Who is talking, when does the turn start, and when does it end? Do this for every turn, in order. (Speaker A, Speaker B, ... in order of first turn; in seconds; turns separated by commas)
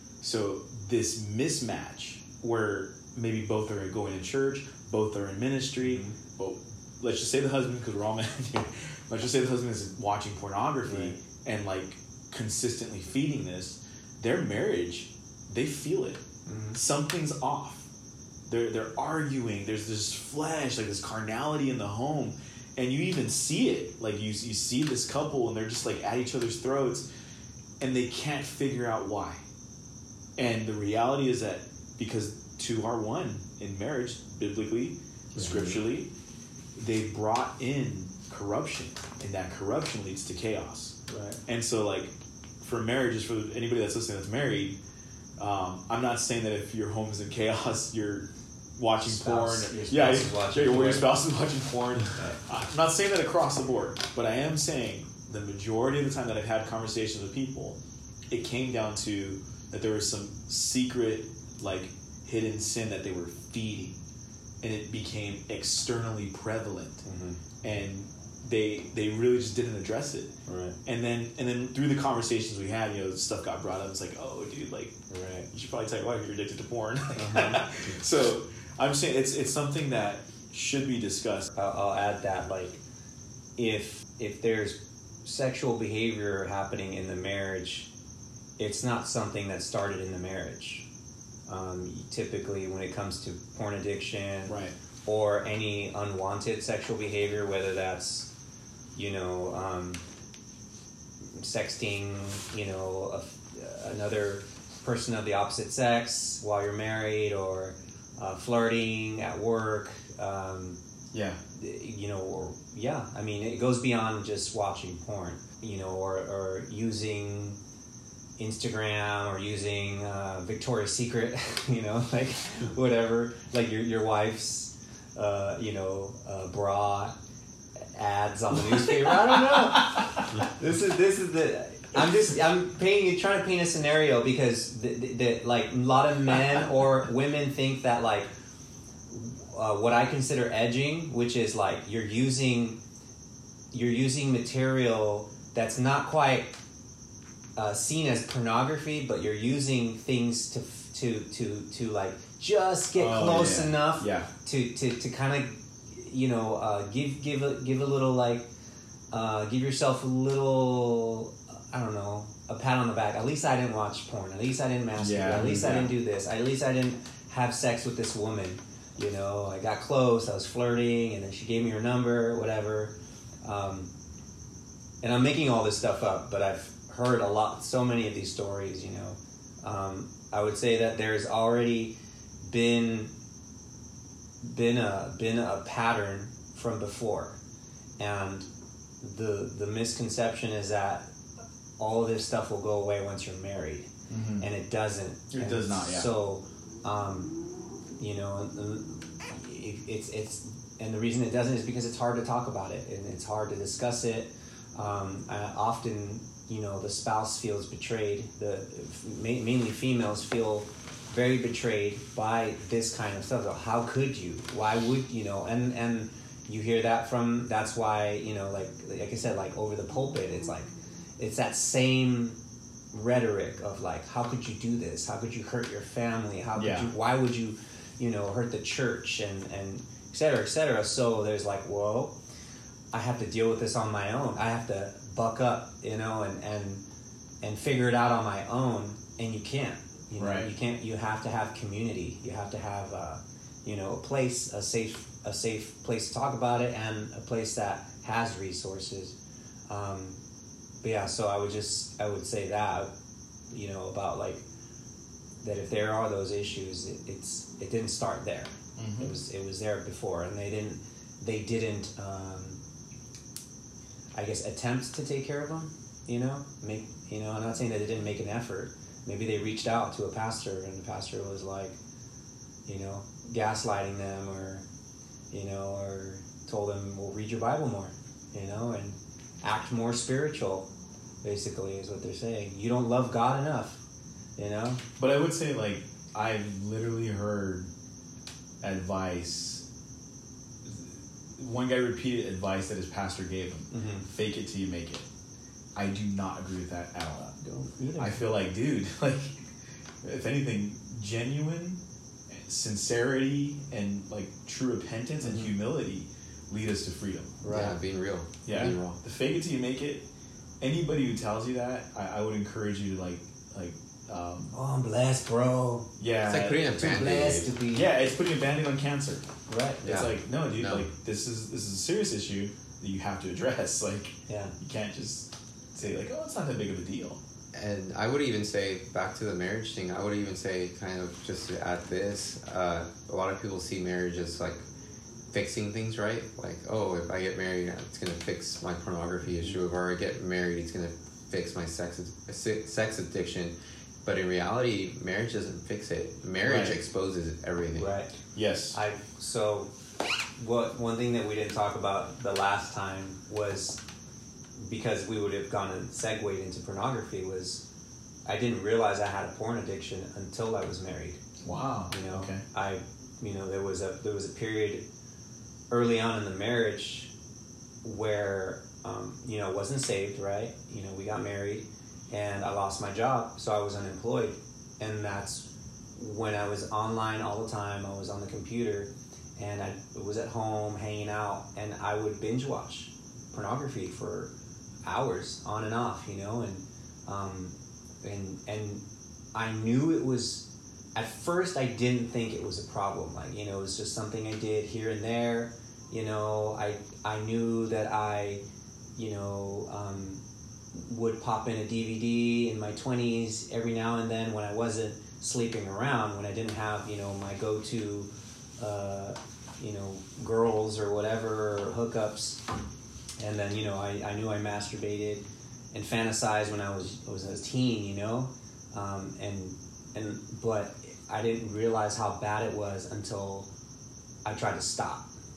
Speaker A: 0.2-16.2, Speaker B: 5.8-6.1, Speaker B: 10.8-11.2, Speaker B: 16.4-16.8, Speaker A: 16.7-17.9, Speaker A: 18.5-27.1, Speaker A: 27.8-29.4, Speaker A: 30.4-36.1, Speaker C: 35.4-35.7, Speaker A: 36.8-44.8, Speaker B: 41.1-41.4, Speaker A: 45.4-57.8, Speaker B: 49.0-51.1, Speaker B: 52.1-52.4, Speaker A: 58.3-64.0, Speaker A: 64.6-67.0, Speaker B: 67.0-67.4, Speaker A: 67.6-70.3, Speaker B: 70.5-70.8, Speaker A: 70.8-75.0, Speaker B: 75.1-75.5, Speaker A: 75.5-81.5, Speaker B: 77.1-77.6, Speaker B: 81.5-82.8, Speaker B: 83.6-87.9, Speaker B: 88.6-90.8, Speaker B: 91.5-98.3, Speaker A: 94.5-94.7, Speaker B: 98.9-100.0, Speaker B: 101.3-110.8, Speaker A: 111.1-111.4, Speaker B: 111.5-117.6, Speaker B: 118.4-127.1, Speaker B: 127.9-138.3, Speaker A: 128.7-130.1, Speaker B: 139.1-142.8, Speaker B: 143.7-146.5, Speaker B: 147.6-158.5, Speaker A: 152.9-154.3, Speaker B: 159.1-173.9, Speaker A: 165.0-165.9, Speaker B: 175.0-183.1, Speaker B: 184.4-187.4, Speaker B: 188.0-188.5, Speaker B: 189.0-191.1, Speaker B: 191.8-197.3, Speaker A: 194.1-194.5, Speaker A: 195.3-196.1, Speaker B: 198.0-222.4, Speaker B: 222.9-232.1, Speaker A: 226.6-226.9, Speaker B: 232.9-236.8, Speaker B: 237.4-249.1, Speaker A: 240.2-240.5, Speaker B: 249.7-250.2, Speaker B: 250.8-252.9, Speaker B: 253.5-254.4, Speaker B: 255.4-262.6, Speaker A: 258.8-259.1, Speaker B: 264.1-271.8, Speaker B: 272.6-274.6, Speaker B: 275.3-280.7, Speaker B: 281.2-283.8, Speaker B: 284.4-284.8, Speaker A: 285.0-287.7, Speaker A: 288.6-289.6, Speaker A: 290.6-295.1, Speaker B: 293.7-294.1, Speaker A: 295.8-297.3, Speaker B: 297.1-298.3, Speaker A: 298.0-299.4, Speaker A: 300.0-307.4, Speaker B: 305.2-305.5, Speaker B: 307.4-307.8, Speaker C: 307.5-309.0, Speaker A: 308.4-310.0, Speaker A: 310.6-314.5, Speaker B: 314.5-315.9, Speaker A: 316.0-316.7, Speaker C: 316.2-317.5, Speaker B: 316.7-317.9, Speaker A: 317.7-319.2, Speaker B: 319.5-319.9, Speaker C: 319.8-320.9, Speaker A: 319.8-327.2, Speaker B: 324.3-324.5, Speaker C: 327.5-334.6, Speaker C: 335.3-347.9, Speaker A: 346.4-346.8, Speaker B: 347.8-348.1, Speaker A: 348.3-348.8, Speaker B: 348.7-349.7, Speaker B: 350.4-353.8, Speaker B: 354.6-357.6, Speaker B: 358.2-361.2, Speaker A: 361.4-362.4, Speaker B: 361.9-364.8, Speaker B: 365.7-367.1, Speaker B: 367.8-384.3, Speaker B: 384.9-388.8, Speaker B: 389.3-398.4, Speaker B: 398.9-400.2, Speaker B: 400.7-412.4, Speaker B: 413.2-423.5, Speaker B: 424.2-425.1